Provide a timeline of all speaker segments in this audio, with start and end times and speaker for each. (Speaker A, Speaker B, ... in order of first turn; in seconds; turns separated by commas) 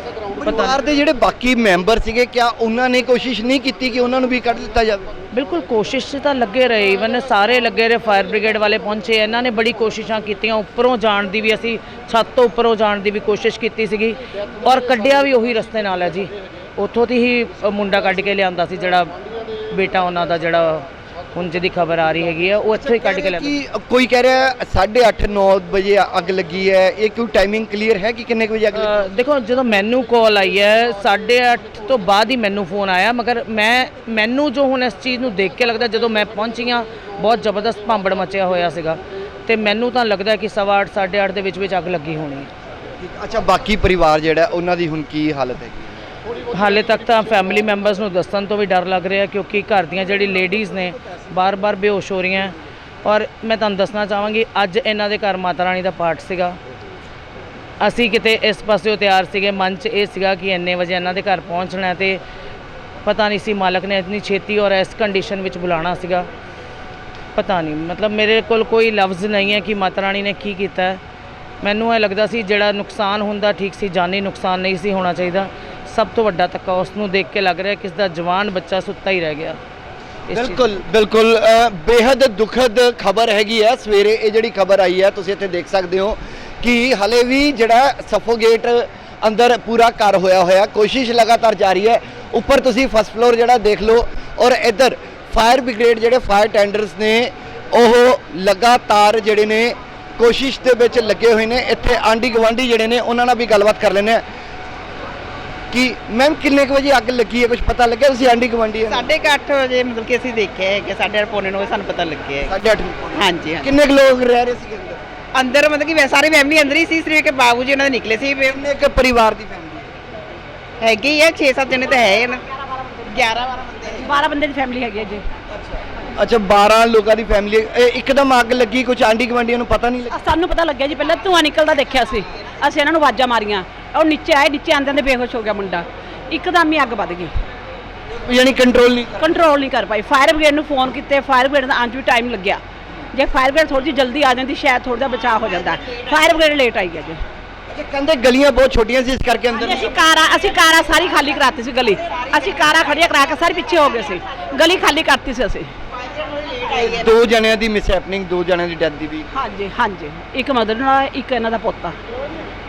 Speaker A: 0.3-5.0, Speaker B: 0.5-0.7, Speaker B: 5.3-19.1, Speaker B: 19.7-23.5, Speaker A: 22.8-29.0, Speaker B: 28.8-42.5, Speaker A: 43.0-46.0, Speaker B: 46.5-56.6, Speaker B: 57.8-62.2, Speaker B: 63.0-66.3, Speaker B: 67.3-71.0, Speaker B: 71.6-79.6, Speaker B: 80.3-80.6, Speaker A: 80.3-104.2, Speaker A: 105.7-109.1, Speaker C: 108.9-112.5, Speaker A: 112.5-115.0, Speaker C: 113.1-113.7, Speaker C: 115.3-118.5, Speaker A: 118.4-119.9, Speaker C: 120.8-122.4, Speaker C: 123.0-124.0, Speaker D: 124.0-125.2, Speaker A: 126.2-130.2, Speaker D: 130.1-137.3, Speaker A: 138.2-139.3, Speaker D: 139.2-142.6, Speaker D: 143.1-147.2, Speaker A: 147.7-149.9, Speaker D: 149.6-155.7, Speaker A: 156.6-159.3, Speaker D: 159.3-161.9